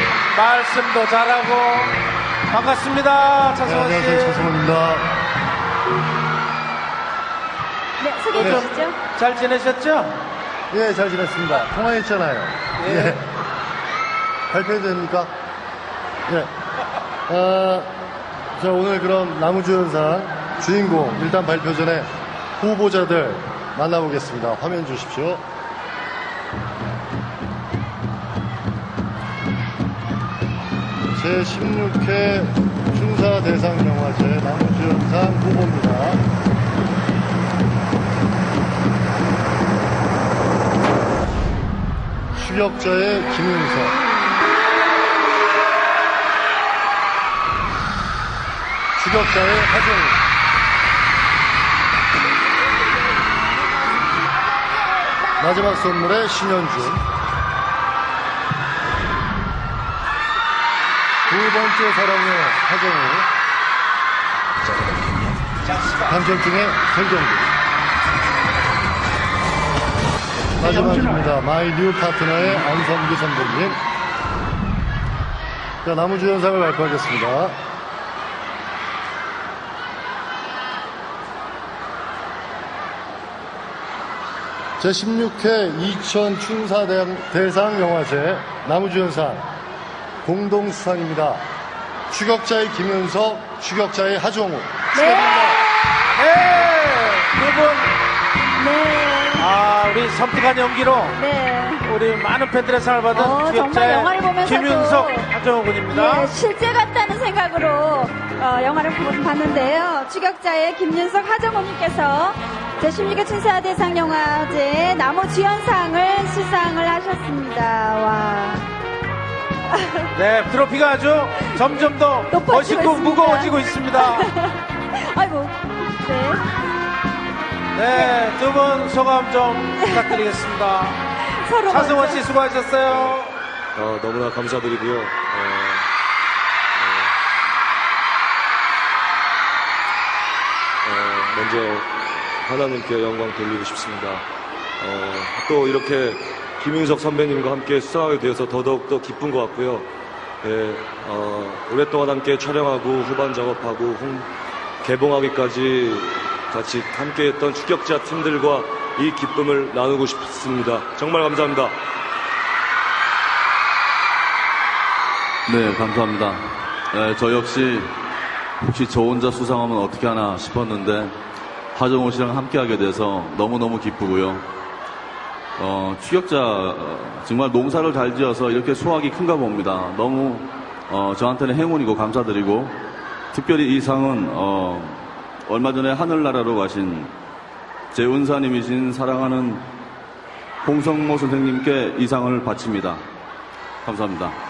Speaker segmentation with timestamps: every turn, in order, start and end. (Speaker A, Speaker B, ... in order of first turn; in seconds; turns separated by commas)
Speaker A: 0.3-1.9, Speaker A: 2.5-4.5, Speaker B: 3.6-5.1, Speaker C: 8.0-9.0, Speaker A: 8.3-10.1, Speaker B: 8.4-8.7, Speaker B: 10.7-13.2, Speaker A: 12.8-13.2, Speaker B: 14.5-15.3, Speaker B: 17.3-17.9, Speaker B: 18.6-25.4, Speaker B: 31.1-36.2, Speaker B: 42.4-44.0, Speaker B: 49.0-50.2, Speaker B: 55.4-57.0, Speaker B: 61.3-63.3, Speaker B: 66.0-67.5, Speaker B: 70.6-73.8, Speaker B: 75.8-77.6, Speaker B: 84.8-89.4, Speaker B: 90.2-91.4, Speaker B: 92.1-94.9, Speaker C: 94.9-96.1, Speaker A: 95.1-95.6, Speaker A: 96.1-97.9, Speaker C: 98.6-99.5, Speaker A: 99.4-101.2, Speaker C: 101.2-101.8, Speaker A: 101.8-106.3, Speaker C: 103.1-105.3, Speaker C: 105.9-118.7, Speaker C: 119.7-120.1, Speaker A: 120.1-124.3, Speaker C: 122.3-126.4, Speaker A: 127.7-131.0, Speaker C: 127.9-128.2, Speaker C: 129.8-130.2, Speaker C: 131.2-132.2, Speaker A: 131.7-133.3, Speaker D: 132.9-133.2, Speaker D: 133.8-135.9, Speaker D: 136.8-137.1, Speaker D: 140.8-144.2, Speaker D: 144.8-149.9, Speaker D: 150.4-154.3, Speaker D: 154.8-161.8, Speaker E: 165.5-167.9, Speaker E: 168.6-171.2, Speaker E: 171.7-174.5, Speaker E: 175.6-182.8, Speaker E: 183.3-187.1, Speaker E: 187.9-189.7, Speaker E: 190.6-193.0, Speaker E: 193.8-194.4